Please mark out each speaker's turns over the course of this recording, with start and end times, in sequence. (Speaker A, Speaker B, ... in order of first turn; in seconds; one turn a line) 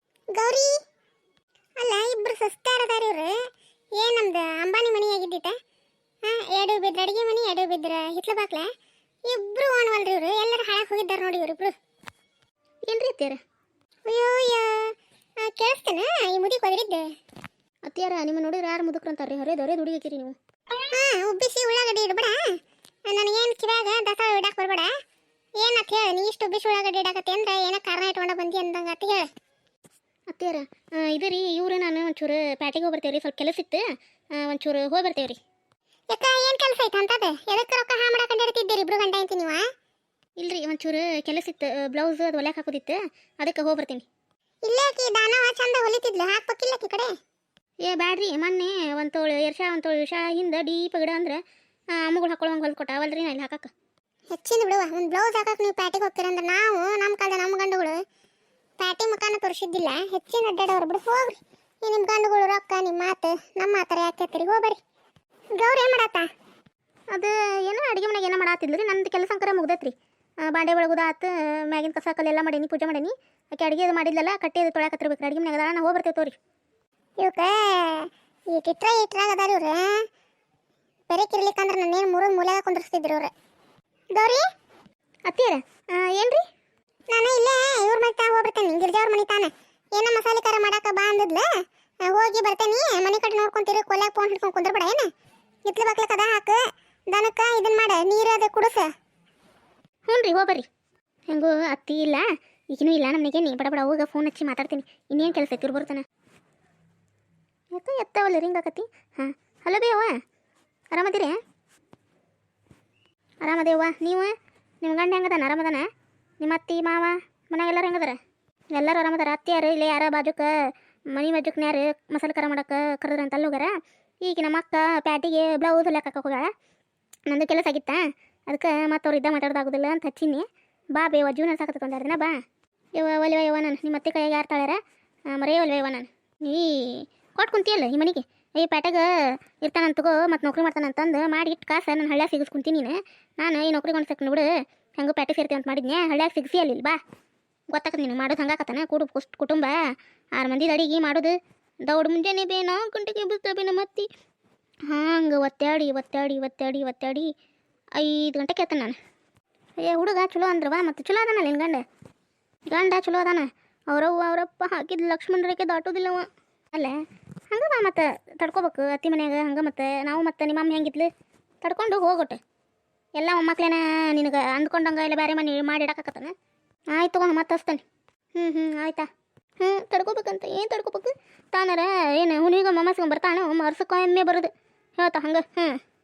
Speaker A: 0.3-0.7
Speaker A: 1.8-3.3
Speaker A: 4.0-5.5
Speaker A: 6.2-8.7
Speaker A: 9.3-11.7
Speaker B: 12.9-13.4
Speaker A: 14.1-14.9
Speaker A: 15.4-17.0
Speaker B: 17.9-20.4
Speaker A: 20.9-22.4
Speaker A: 23.1-24.9
Speaker A: 25.6-29.3
Speaker B: 30.3-33.8
Speaker B: 34.4-35.4
Speaker A: 36.1-39.6
Speaker B: 40.4-44.0
Speaker A: 44.6-47.1
Speaker B: 47.8-51.4
Speaker B: 51.9-53.7
Speaker A: 54.3-58.0
Speaker A: 58.8-64.8
Speaker A: 65.5-66.3
Speaker B: 67.1-69.9
Speaker B: 70.4-76.3
Speaker A: 77.2-79.9
Speaker A: 81.1-83.3
Speaker A: 84.1-84.4
Speaker B: 85.3-86.4
Speaker A: 87.1-91.5
Speaker A: 92.0-95.1
Speaker A: 95.7-98.9
Speaker B: 100.1-100.7
Speaker B: 101.3-106.0
Speaker B: 107.7-110.1
Speaker B: 110.9-111.4
Speaker B: 113.4-115.9
Speaker B: 116.4-118.2
Speaker B: 118.7-120.5
Speaker B: 121.1-126.5
Speaker B: 127.3-132.3
Speaker B: 132.9-134.8
Speaker B: 135.3-144.5
Speaker B: 145.0-147.0
Speaker B: 147.7-149.8
Speaker B: 150.3-154.1
Speaker B: 154.9-157.3
Speaker B: 158.0-159.0
Speaker B: 159.8-161.8
Speaker B: 162.7-167.0
Speaker B: 167.5-171.1
Speaker B: 171.6-172.4
Speaker B: 173.2-176.3
Speaker B: 176.9-177.8
Speaker B: 178.3-179.1
Speaker B: 179.6-185.8